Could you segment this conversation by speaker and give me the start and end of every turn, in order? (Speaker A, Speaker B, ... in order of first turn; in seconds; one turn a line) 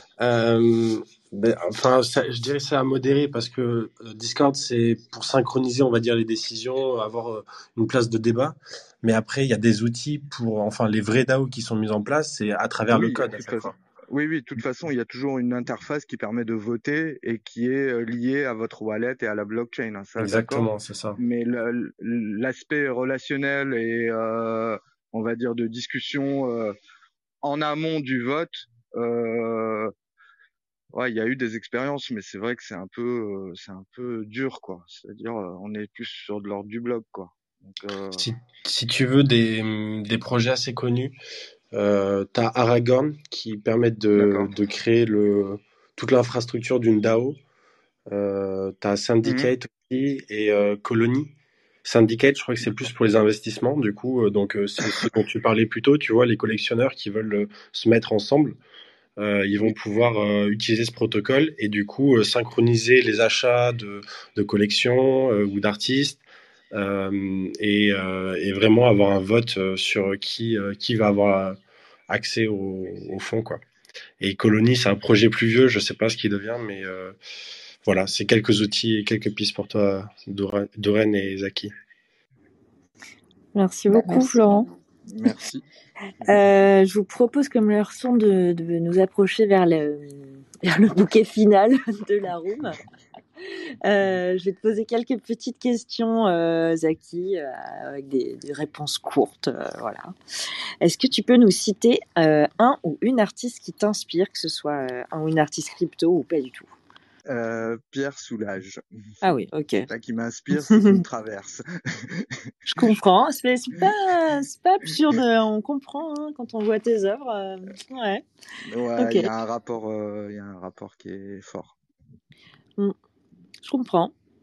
Speaker A: 0.2-13.7
Speaker B: 12.9-26.7
Speaker A: 20.2-21.2
Speaker B: 27.4-29.9
Speaker B: 30.9-38.3
Speaker A: 38.1-41.1
Speaker A: 41.7-47.4
Speaker B: 44.1-44.5
Speaker A: 48.1-51.3
Speaker B: 49.2-49.5
Speaker A: 51.8-58.6
Speaker A: 59.2-73.6
Speaker A: 74.2-77.1
Speaker A: 77.8-81.7
Speaker C: 83.5-84.7
Speaker B: 83.9-84.2
Speaker B: 85.1-85.6
Speaker C: 86.2-92.8
Speaker C: 93.8-100.1
Speaker C: 100.8-106.7
Speaker B: 107.3-108.8
Speaker C: 109.2-109.9
Speaker B: 109.9-112.8
Speaker C: 110.5-111.0
Speaker C: 112.7-118.2
Speaker B: 118.6-121.7
Speaker C: 119.0-119.3
Speaker C: 123.6-124.1